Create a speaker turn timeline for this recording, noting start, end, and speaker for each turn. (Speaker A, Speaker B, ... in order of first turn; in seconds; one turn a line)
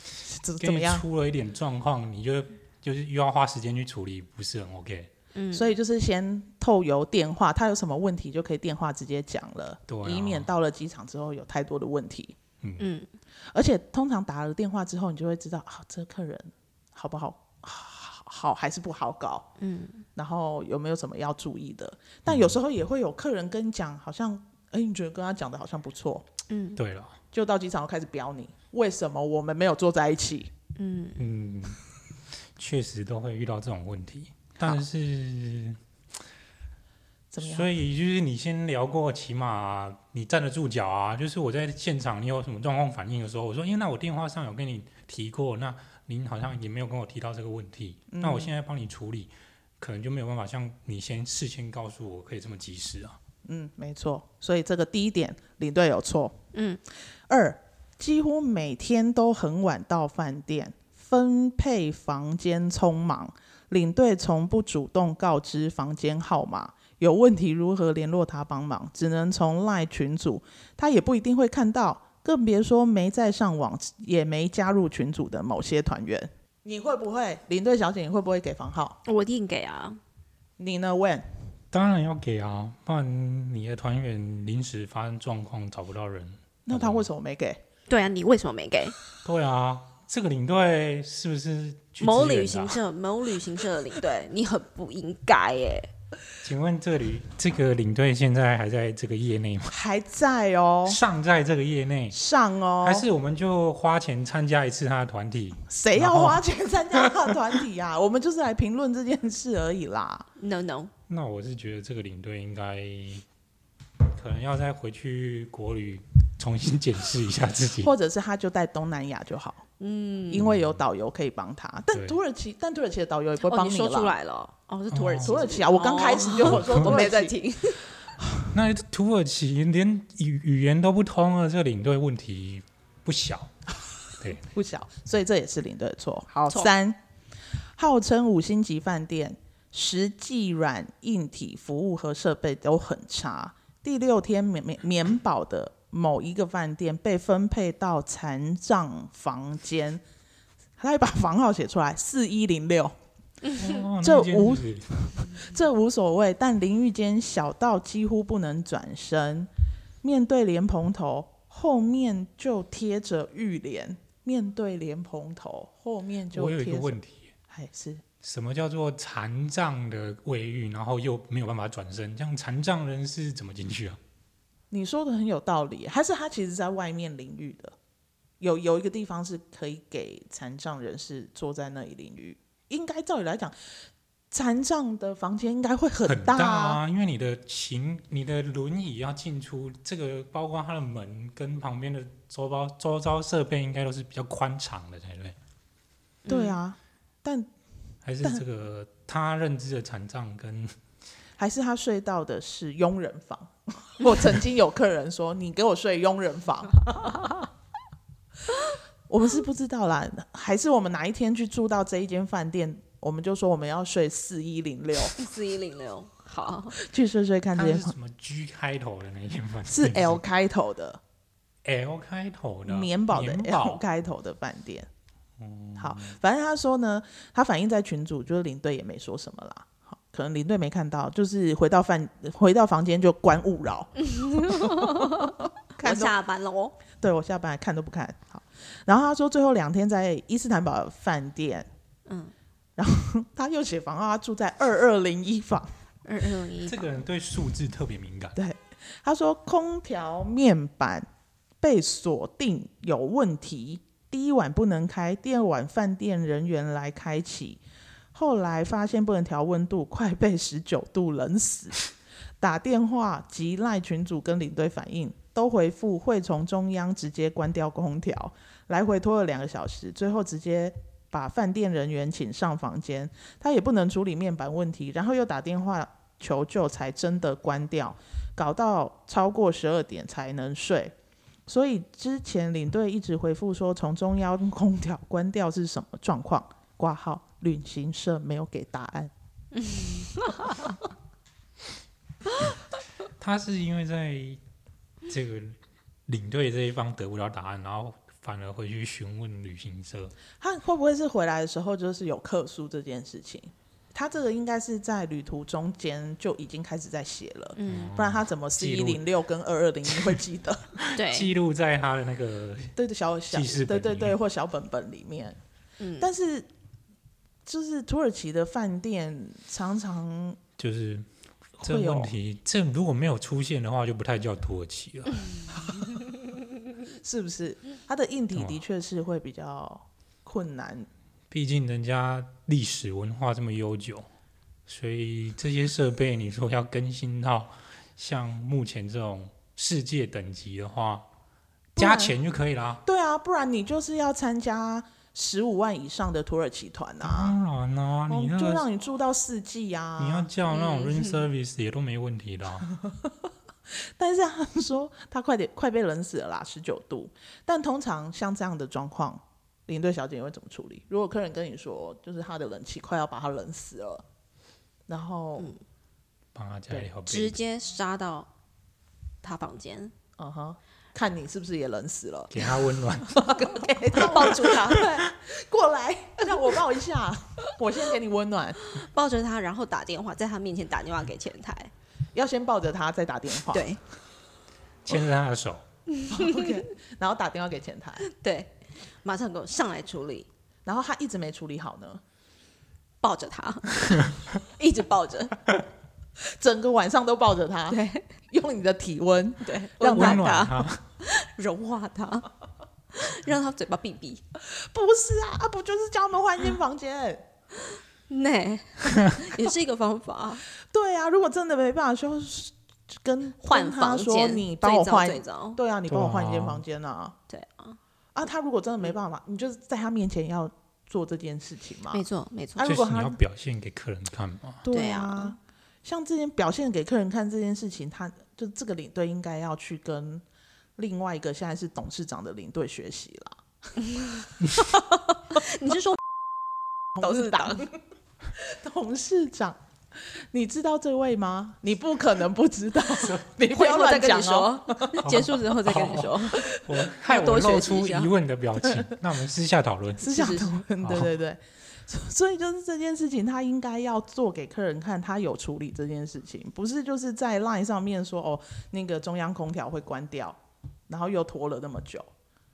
Speaker A: 0.2-1.0
Speaker B: 0.6-5.1
Speaker C: 5.3-5.7
Speaker A: 5.5-12.3
Speaker B: 9.9-10.5
Speaker B: 12.6-12.9
Speaker C: 12.8-13.1
Speaker A: 13.5-19.5
Speaker C: 19.6-20.1
Speaker A: 20.1-26.3
Speaker B: 22.3-22.5
Speaker C: 26.5-26.8
Speaker B: 26.8-27.2
Speaker A: 27.3-30.5
Speaker C: 30.8-31.2
Speaker B: 31.2-31.8
Speaker B: 32.5-35.8
Speaker A: 37.3-37.7
Speaker B: 37.4-53.2
Speaker A: 48.1-48.5
Speaker A: 53.5-56.4
Speaker C: 56.5-56.8
Speaker A: 57.3-79.0
Speaker C: 79.0-80.0
Speaker A: 80.6-81.3
Speaker B: 81.7-87.0
Speaker A: 86.7-87.6
Speaker C: 87.9-89.0
Speaker B: 89.2-92.8
Speaker C: 92.0-95.9
Speaker B: 96.4-99.7
Speaker A: 99.7-101.0
Speaker B: 100.8-102.2
Speaker A: 102.1-103.0
Speaker B: 102.8-106.4
Speaker A: 105.7-110.3
Speaker B: 107.0-107.3
Speaker C: 110.4-110.9
Speaker B: 111.1-113.2
Speaker B: 114.0-117.9
Speaker A: 117.8-119.6
Speaker C: 119.8-120.5
Speaker A: 120.3-124.1
Speaker B: 120.5-120.8
Speaker B: 121.9-122.2
Speaker C: 123.5-127.8
Speaker B: 124.9-125.4
Speaker A: 125.2-127.3
Speaker B: 126.4-127.0
Speaker B: 128.5-133.5
Speaker A: 134.4-137.0
Speaker A: 137.8-150.0
Speaker A: 150.8-152.9
Speaker C: 153.4-153.8
Speaker B: 153.5-154.9
Speaker A: 154.0-159.5
Speaker A: 160.0-167.0
Speaker B: 166.3-167.3
Speaker A: 167.5-168.0
Speaker B: 168.2-174.0
Speaker A: 174.7-177.8
Speaker A: 178.4-183.5
Speaker A: 184.3-186.8
Speaker B: 186.1-195.3
Speaker C: 196.2-196.6
Speaker A: 196.3-197.5
Speaker B: 198.0-200.8
Speaker A: 201.4-207.4
Speaker A: 209.1-215.2
Speaker C: 215.2-216.8
Speaker A: 216.7-217.9
Speaker B: 217.5-220.2
Speaker A: 219.7-221.0
Speaker B: 221.6-223.8
Speaker A: 222.7-224.9
Speaker B: 225.4-226.2
Speaker A: 225.8-236.1
Speaker C: 234.0-236.8
Speaker A: 237.0-241.7
Speaker C: 242.1-242.3
Speaker A: 242.8-245.7
Speaker C: 246.0-246.8
Speaker B: 246.7-248.4
Speaker A: 248.3-251.1
Speaker A: 251.6-257.6
Speaker A: 258.1-261.8
Speaker A: 262.4-280.9
Speaker A: 281.5-289.1
Speaker C: 289.5-290.8
Speaker B: 293.2-294.4
Speaker B: 295.1-300.1
Speaker A: 300.4-310.8
Speaker C: 307.6-307.9
Speaker B: 307.6-309.0
Speaker B: 309.9-310.2
Speaker B: 310.8-312.8
Speaker C: 310.9-311.3
Speaker A: 312.8-315.4
Speaker B: 313.3-314.1
Speaker C: 315.8-316.1
Speaker A: 316.0-316.5
Speaker A: 317.4-320.4
Speaker B: 320.6-325.2
Speaker A: 321.6-322.1
Speaker A: 327.0-330.9
Speaker B: 328.3-328.6
Speaker B: 331.3-334.1
Speaker B: 334.7-341.1
Speaker A: 341.8-342.1
Speaker B: 341.8-342.8
Speaker A: 342.8-347.4
Speaker B: 347.0-348.6
Speaker A: 348.1-350.3
Speaker B: 350.0-352.7
Speaker C: 350.5-351.2
Speaker A: 353.7-364.0
Speaker A: 364.9-365.5
Speaker B: 366.3-367.4
Speaker C: 367.1-368.3
Speaker C: 369.2-369.9
Speaker A: 370.2-372.5
Speaker B: 372.3-373.4
Speaker A: 373.1-378.6
Speaker C: 373.9-375.1
Speaker B: 374.7-375.0
Speaker C: 378.6-381.7
Speaker A: 382.1-383.8
Speaker C: 383.5-383.8
Speaker B: 384.8-385.6
Speaker C: 385.9-386.6
Speaker A: 386.1-388.0
Speaker C: 388.0-390.3
Speaker A: 390.6-392.0
Speaker C: 393.0-395.4
Speaker A: 396.2-400.3
Speaker C: 397.7-398.1
Speaker C: 399.4-402.3
Speaker B: 399.9-400.8
Speaker C: 402.9-404.2
Speaker A: 404.4-407.2
Speaker C: 407.7-410.4
Speaker A: 410.6-417.1
Speaker C: 413.4-415.6
Speaker B: 415.9-416.6
Speaker C: 417.3-417.8
Speaker A: 418.1-422.0
Speaker C: 421.9-422.7
Speaker A: 422.6-423.2
Speaker B: 422.6-424.6
Speaker A: 424.6-430.2
Speaker C: 424.7-425.4
Speaker A: 430.8-433.4
Speaker C: 433.8-434.3
Speaker A: 434.5-435.4
Speaker C: 434.9-436.0
Speaker A: 436.9-437.8
Speaker C: 437.0-437.7
Speaker A: 438.4-445.1
Speaker C: 443.5-448.1
Speaker B: 445.0-451.1
Speaker A: 446.3-446.6
Speaker A: 450.0-462.1
Speaker C: 450.1-450.6